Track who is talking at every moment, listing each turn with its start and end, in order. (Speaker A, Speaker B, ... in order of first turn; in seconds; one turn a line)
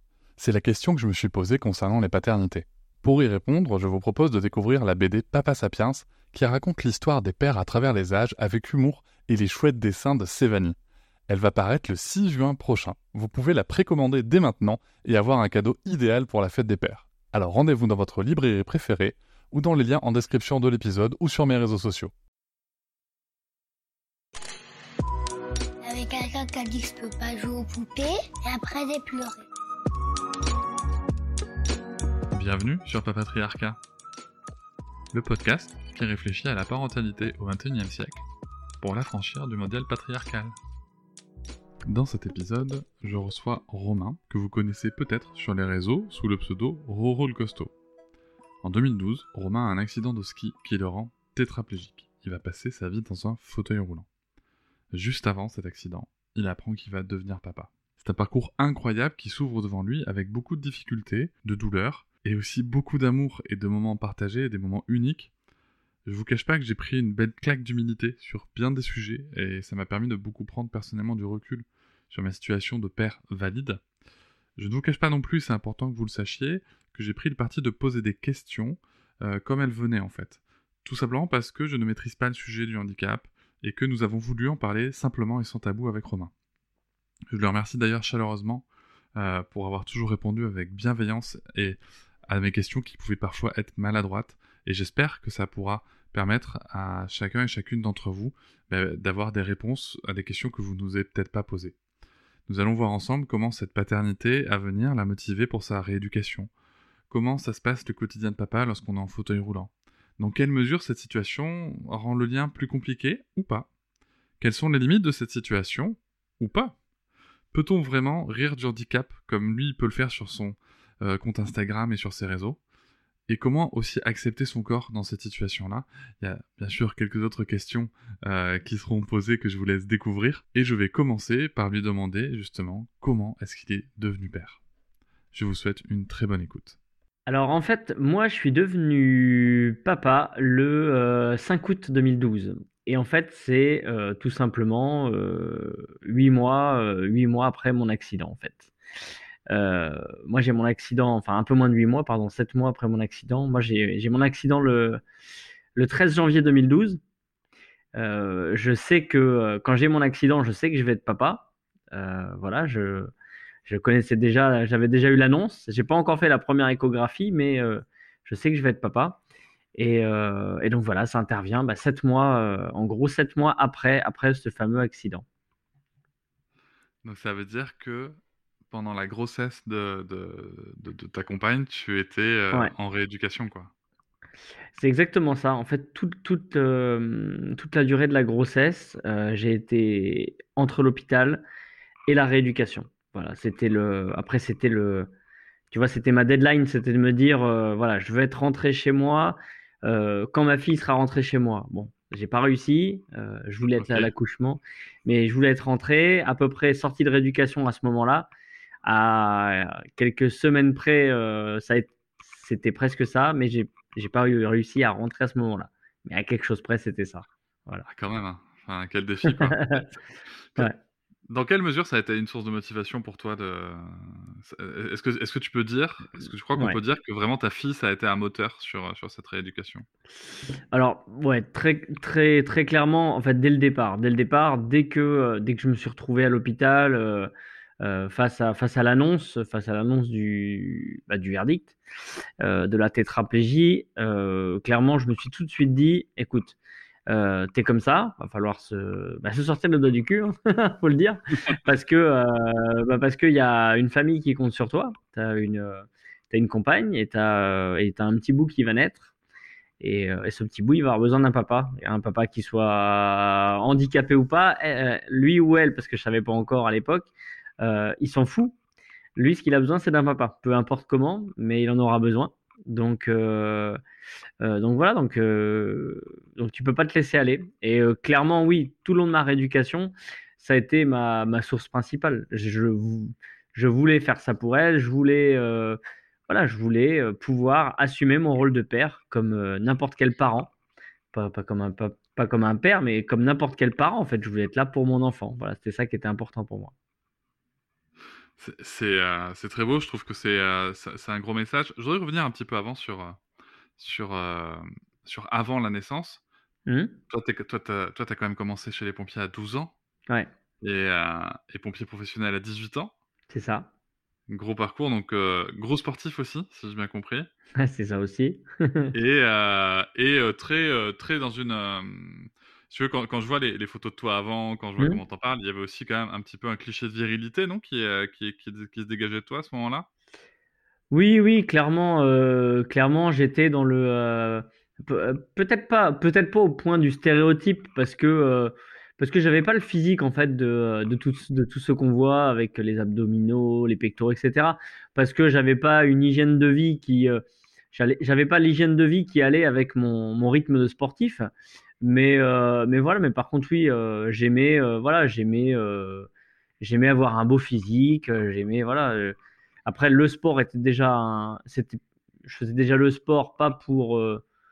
Speaker A: 0.4-10.8
Speaker A: 11.3-22.1
Speaker B: 25.8-29.4
Speaker A: 32.3-33.8
Speaker A: 35.1-38.2
Speaker A: 38.8-40.5
Speaker A: 41.8-47.7
Speaker A: 48.6-54.0
Speaker A: 54.9-65.3
Speaker A: 66.0-73.8
Speaker A: 74.6-86.3
Speaker A: 87.3-88.6
Speaker A: 89.2-101.8
Speaker A: 102.5-106.5
Speaker A: 107.1-113.7
Speaker A: 114.4-116.8
Speaker A: 117.5-122.6
Speaker A: 123.3-134.6
Speaker A: 135.3-136.8
Speaker C: 137.3-148.7
Speaker C: 149.5-155.0
Speaker C: 155.7-157.0
Speaker C: 157.9-163.1
Speaker C: 163.7-169.2
Speaker C: 169.7-175.2
Speaker A: 177.0-178.2
Speaker A: 178.7-183.7
Speaker C: 184.7-191.4
Speaker C: 192.1-195.1
Speaker C: 195.7-208.3
Speaker A: 203.8-204.1
Speaker C: 208.8-217.8
Speaker A: 217.8-219.9
Speaker C: 219.3-219.9
Speaker A: 221.3-229.9
Speaker C: 230.7-241.8
Speaker C: 242.4-246.6
Speaker C: 247.1-259.1
Speaker C: 259.8-268.6
Speaker C: 269.1-273.8
Speaker C: 274.4-290.5
Speaker C: 291.1-296.7
Speaker A: 298.4-303.2
Speaker A: 303.8-306.2
Speaker C: 306.7-306.9
Speaker A: 307.1-309.7
Speaker A: 310.6-312.9
Speaker C: 313.3-313.7
Speaker A: 314.3-317.3
Speaker C: 317.5-318.9
Speaker A: 318.9-329.9
Speaker C: 330.9-351.3
Speaker C: 351.8-356.1
Speaker C: 356.6-364.2